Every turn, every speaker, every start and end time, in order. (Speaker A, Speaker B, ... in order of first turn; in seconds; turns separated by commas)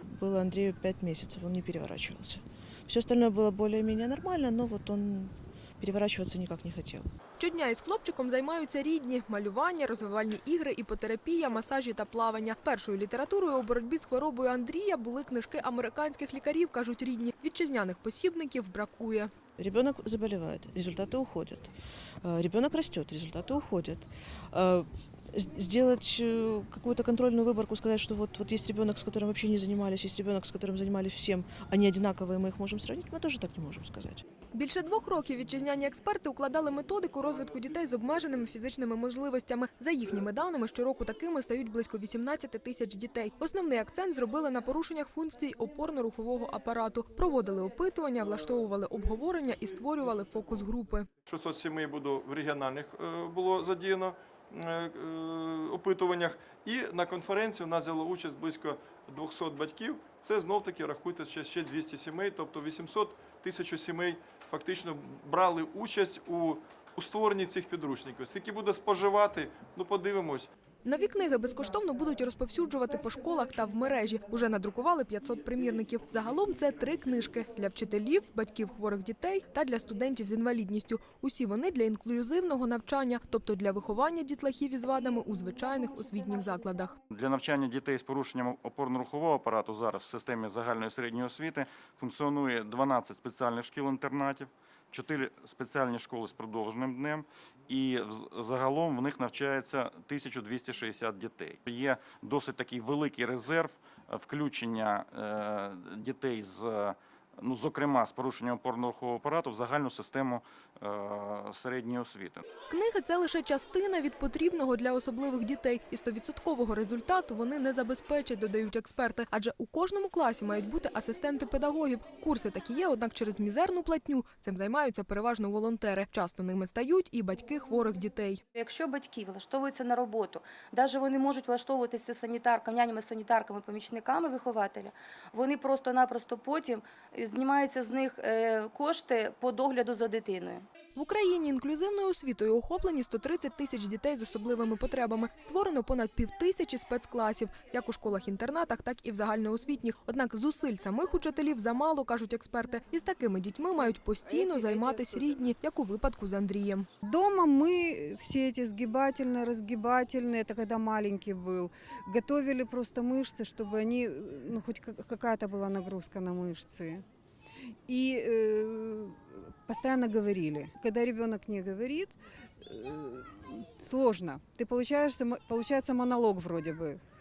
Speaker A: 0.1-7.1, Speaker B: 7.4-19.3, Speaker A: 19.6-34.2, Speaker B: 34.5-51.0, Speaker C: 49.4-50.5, Speaker C: 51.2-70.5, Speaker B: 70.8-86.9, Speaker D: 87.1-112.5, Speaker B: 112.7-128.4, Speaker E: 128.5-140.7, Speaker B: 140.9-156.9, Speaker F: 154.3-155.3, Speaker F: 157.0-167.0, Speaker F: 167.9-177.0